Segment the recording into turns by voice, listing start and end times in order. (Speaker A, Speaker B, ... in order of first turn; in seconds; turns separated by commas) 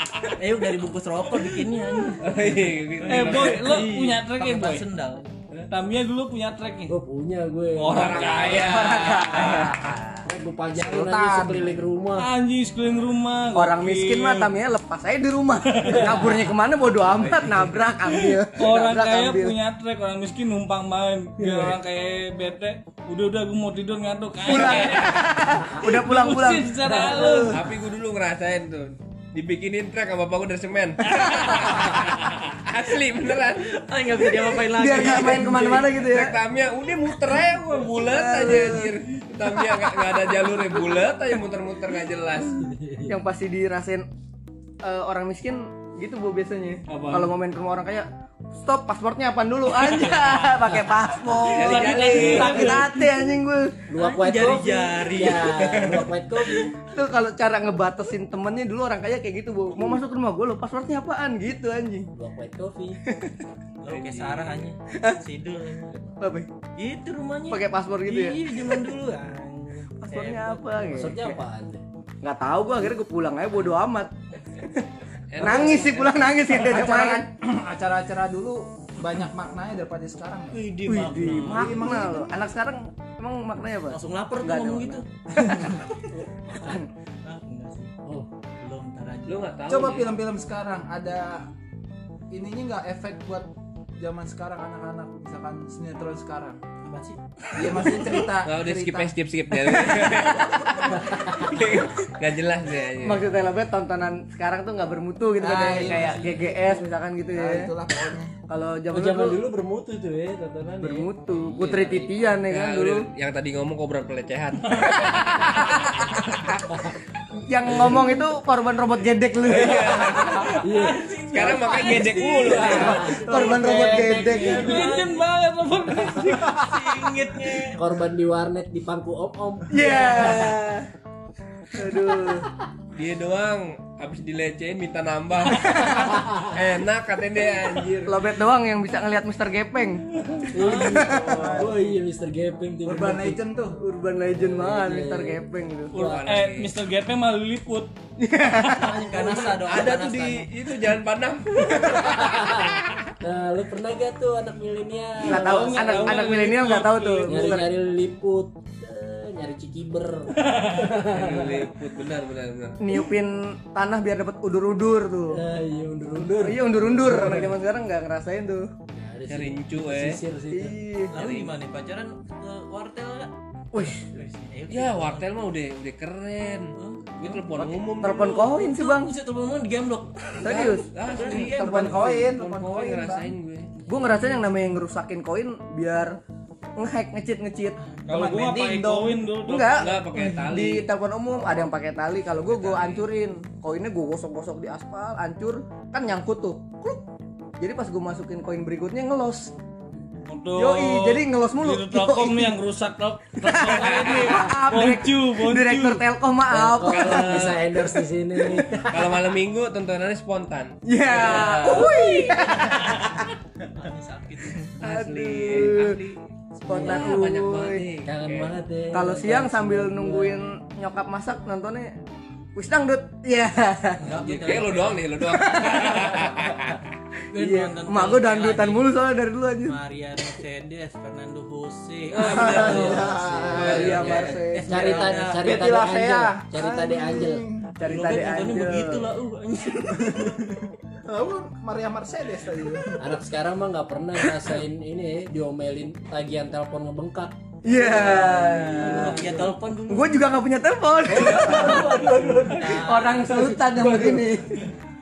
Speaker A: 0.3-5.3, Speaker B: 2.2-3.9, Speaker C: 3.0-4.8, Speaker C: 5.7-6.9, Speaker D: 6.9-8.6, Speaker C: 7.8-9.6, Speaker B: 7.8-10.1, Speaker D: 10.2-12.3, Speaker E: 10.7-11.8, Speaker C: 12.2-14.5, Speaker F: 13.5-19.6, Speaker C: 15.8-16.3, Speaker B: 17.0-17.7, Speaker C: 18.2-27.6, Speaker D: 21.4-21.7, Speaker F: 24.4-27.6, Speaker B: 27.4-33.7, Speaker F: 31.2-31.5, Speaker A: 33.6-35.9, Speaker F: 34.4-36.4, Speaker B: 35.4-42.7, Speaker F: 37.8-40.6, Speaker D: 42.7-43.1, Speaker F: 43.0-44.0, Speaker F: 44.8-48.1, Speaker C: 46.9-47.3, Speaker F: 48.6-53.8, Speaker B: 51.4-52.8, Speaker C: 51.5-52.9, Speaker D: 52.4-52.7, Speaker D: 53.9-56.7, Speaker A: 54.0-55.9, Speaker B: 55.6-56.0, Speaker F: 56.8-62.1, Speaker D: 62.1-63.0, Speaker F: 63.1-63.3, Speaker A: 63.8-66.1, Speaker B: 63.9-64.7, Speaker F: 64.9-65.2, Speaker F: 66.2-66.5, Speaker A: 66.8-71.0, Speaker F: 67.5-68.9, Speaker F: 70.0-71.3, Speaker D: 70.9-71.8, Speaker F: 72.2-74.8, Speaker B: 75.3-76.3, Speaker F: 75.3-77.3, Speaker E: 76.6-80.7, Speaker A: 80.5-82.1, Speaker F: 80.8-85.7, Speaker E: 81.5-82.4, Speaker A: 83.9-85.7, Speaker D: 86.2-86.8, Speaker F: 86.5-86.8, Speaker A: 87.2-87.9, Speaker A: 88.6-89.6, Speaker B: 89.3-90.2, Speaker E: 89.7-91.5, Speaker E: 92.3-96.6, Speaker A: 96.8-97.8, Speaker E: 97.5-99.1, Speaker B: 98.4-103.3, Speaker D: 101.1-101.7, Speaker F: 103.0-107.7, Speaker E: 105.4-106.4, Speaker A: 105.7-106.2, Speaker E: 107.3-108.3, Speaker F: 108.5-109.5, Speaker D: 108.9-111.1, Speaker F: 110.8-113.1, Speaker B: 111.5-116.6, Speaker F: 117.4-120.6, Speaker B: 119.5-120.7, Speaker D: 120.6-121.1, Speaker C: 120.8-123.0, Speaker A: 120.9-122.9, Speaker B: 121.2-123.4, Speaker D: 122.1-124.9, Speaker F: 122.4-124.9, Speaker A: 124.3-125.3, Speaker C: 124.3-127.1, Speaker A: 126.1-127.8, Speaker D: 127.7-130.5, Speaker F: 129.7-130.9, Speaker F: 131.7-132.5, Speaker B: 132.9-138.2, Speaker F: 138.0-140.0, Speaker D: 140.5-143.4, Speaker A: 140.5-141.7, Speaker F: 140.6-141.4, Speaker E: 141.3-141.8, Speaker E: 142.8-143.8, Speaker F: 143.8-145.9, Speaker D: 144.3-145.4, Speaker C: 145.9-147.9, Speaker B: 145.9-146.7, Speaker F: 148.2-149.3, Speaker A: 148.7-150.5, Speaker B: 149.2-152.9, Speaker D: 151.8-156.2, Speaker F: 155.2-157.7, Speaker C: 155.2-157.6, Speaker D: 157.2-161.7, Speaker C: 160.4-161.0, Speaker B: 161.0-162.8, Speaker F: 162.8-165.4, Speaker D: 165.3-167.6, Speaker F: 166.2-168.7, Speaker D: 168.9-170.8, Speaker B: 169.3-170.2, Speaker F: 170.5-171.2, Speaker A: 171.1-173.3, Speaker B: 171.1-171.5, Speaker F: 173.7-174.1, Speaker A: 174.0-175.3, Speaker B: 174.7-178.5, Speaker A: 176.7-181.7, Speaker F: 177.9-179.1, Speaker F: 180.4-182.1, Speaker B: 180.4-183.8, Speaker E: 181.3-183.3, Speaker F: 183.8-186.2, Speaker F: 186.8-187.8, Speaker E: 188.1-189.4, Speaker C: 188.1-189.9, Speaker F: 189.4-197.0, Speaker B: 189.7-190.8, Speaker B: 192.4-193.1, Speaker F: 197.6-199.5, Speaker C: 200.3-206.0, Speaker F: 200.5-202.6, Speaker F: 203.4-207.8, Speaker B: 203.8-204.3, Speaker D: 206.5-209.3, Speaker B: 206.8-207.7, Speaker B: 208.4-212.0, Speaker F: 210.8-213.1, Speaker C: 211.2-211.8, Speaker A: 213.7-214.8, Speaker B: 214.8-218.6, Speaker F: 214.8-216.0, Speaker F: 216.7-217.9, Speaker D: 216.7-217.3, Speaker D: 218.0-220.6, Speaker F: 218.9-221.9, Speaker F: 222.5-224.2, Speaker A: 224.0-225.1, Speaker B: 224.1-226.8, Speaker F: 225.2-226.3, Speaker A: 227.3-228.9, Speaker F: 227.3-229.8, Speaker A: 229.6-235.7, Speaker D: 232.2-237.4, Speaker E: 232.2-233.7, Speaker F: 232.6-233.0, Speaker F: 233.5-235.1, Speaker B: 233.6-234.3, Speaker E: 235.4-237.8, Speaker F: 237.8-239.1, Speaker A: 237.8-240.6, Speaker E: 241.1-243.1, Speaker D: 243.0-249.5, Speaker F: 247.6-249.3, Speaker A: 247.9-250.3, Speaker F: 249.9-254.7, Speaker D: 251.1-254.3, Speaker A: 251.3-253.4